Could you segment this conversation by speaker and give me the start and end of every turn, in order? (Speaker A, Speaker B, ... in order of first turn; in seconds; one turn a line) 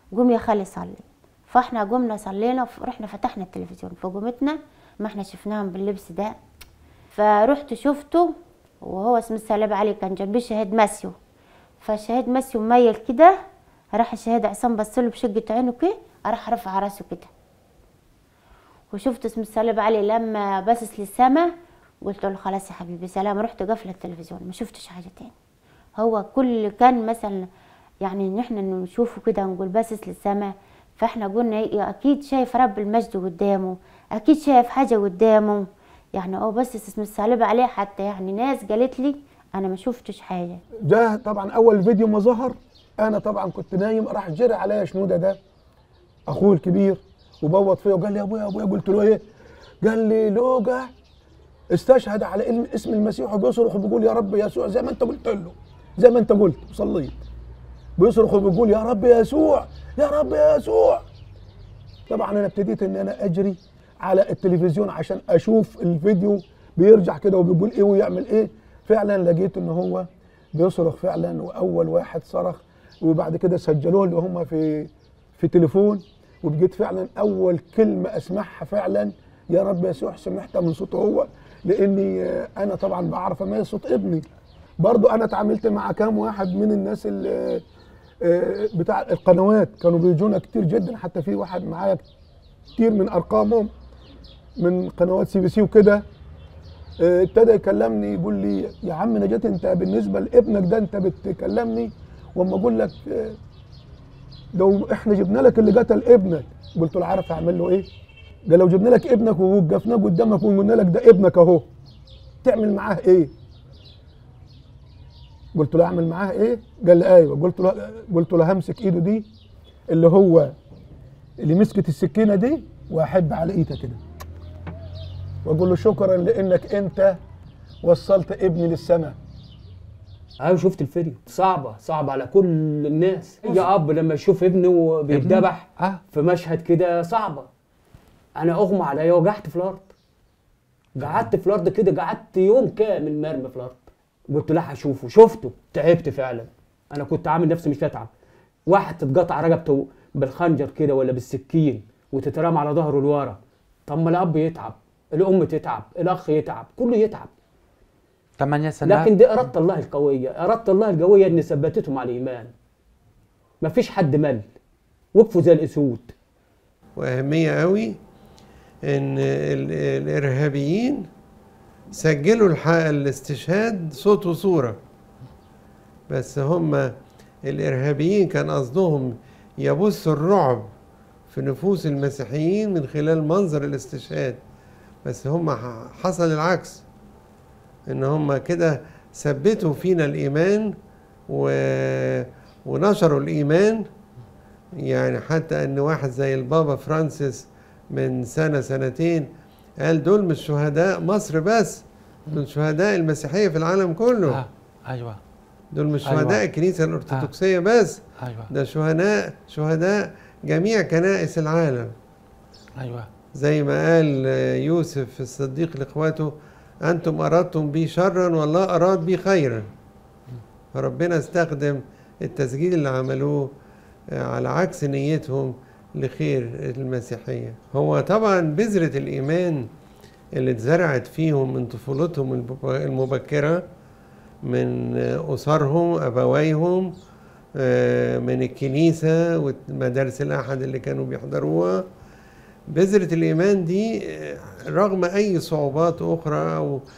Speaker A: 0.1-6.3
Speaker A: 7.1-8.3
Speaker A: 8.8-11.1
Speaker A: 11.8-13.3
Speaker A: 13.9-17.3
Speaker A: 18.9-21.5
Speaker A: 22.0-25.3
Speaker A: 26.0-27.5
Speaker A: 28.0-40.6
Speaker B: 40.9-45.4
Speaker B: 46.3-49.2
Speaker B: 49.8-50.9
Speaker B: 51.7-57.2
Speaker B: 58.0-61.0
Speaker B: 62.1-84.2
Speaker B: 84.8-87.6
Speaker B: 88.2-92.0
Speaker B: 92.8-93.7
Speaker B: 94.6-96.0
Speaker B: 97.0-103.4
Speaker B: 104.5-107.8
Speaker B: 108.5-111.7
Speaker B: 112.4-113.3
Speaker B: 115.5-119.3
Speaker B: 119.9-120.5
Speaker B: 121.4-124.0
Speaker B: 125.4-127.2
Speaker B: 127.8-129.2
Speaker C: 130.4-137.5
Speaker D: 135.1-136.0
Speaker C: 138.4-139.9
Speaker C: 141.0-148.1
Speaker D: 141.0-141.3
Speaker C: 148.7-157.3
Speaker D: 158.4-159.1
Speaker C: 158.8-162.5
Speaker C: 163.6-164.4
Speaker C: 165.1-166.1
Speaker E: 167.0-167.9
Speaker E: 168.9-171.0
Speaker E: 172.0-174.8
Speaker E: 176.1-176.9
Speaker E: 177.5-179.1
Speaker E: 179.6-180.7
Speaker E: 181.3-184.4
Speaker E: 185.0-186.8
Speaker E: 187.9-190.7
Speaker E: 191.3-193.8
Speaker E: 194.9-199.2
Speaker E: 199.8-201.8
Speaker E: 202.3-204.4
Speaker D: 204.3-205.2
Speaker E: 205.7-208.0
Speaker D: 206.1-206.4
Speaker D: 208.2-208.5
Speaker E: 208.5-210.0
Speaker E: 210.5-211.9
Speaker D: 212.8-213.1
Speaker E: 213.4-216.3
Speaker E: 216.9-219.7
Speaker E: 220.8-223.5
Speaker E: 224.3-229.6
Speaker E: 230.4-233.6
Speaker E: 234.5-236.9
Speaker E: 237.6-241.8
Speaker E: 242.7-246.8